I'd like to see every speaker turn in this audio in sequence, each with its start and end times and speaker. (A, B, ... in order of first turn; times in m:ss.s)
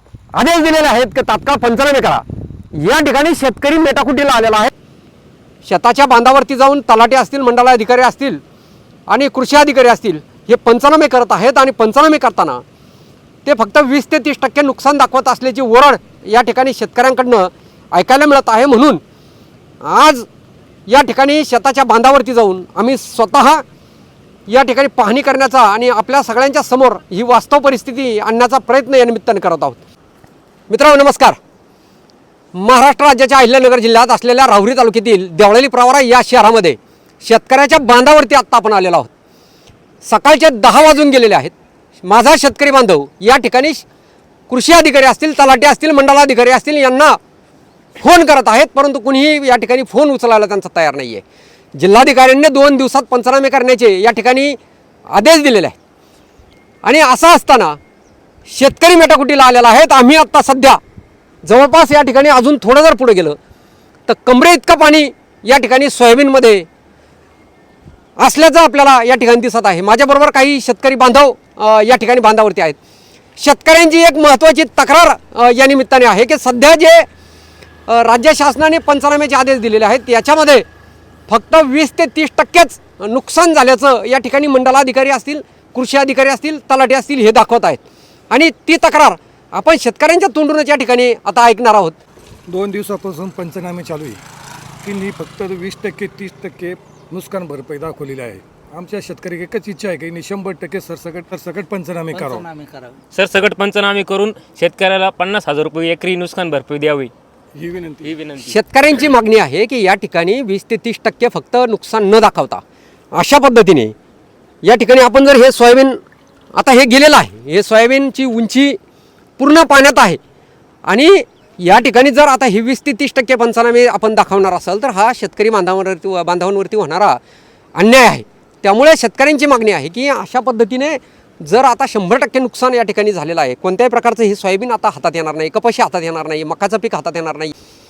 0:00.3-0:04.7 A
0:05.6-0:08.4 A
0:09.1-0:12.6 A
0:13.4-0:19.0 A
0:19.8-0:20.3 A
0:20.9-0:23.6 A
0:24.5-0:29.8 A
0:30.7-0:31.4 A
0:32.5-0:39.1 A
0:40.0-0:43.8 A
0:44.5-0:47.2 A
0:48.0-0:51.2 A
0:51.8-0:54.6 A
0:55.1-0:55.8 A
0:56.8-0:57.8 A
0:58.5-1:00.8 A
1:01.4-1:03.4 A
1:04.1-1:06.7 A
1:08.2-1:12.8 A
1:13.4-1:17.1 A
1:17.9-1:20.6 A
1:21.3-1:32.0 A
1:32.5-1:34.2 B
1:34.8-1:42.5 B
1:43.1-1:47.1 C
1:47.6-1:48.1 B
1:48.0-1:48.5 C
1:48.4-1:52.6 A
1:53.2-1:53.9 A
1:54.6-1:56.0 A
1:56.6-1:58.8 A
1:59.4-2:00.2 A
2:00.8-2:07.2 A
2:07.8-2:17.5 A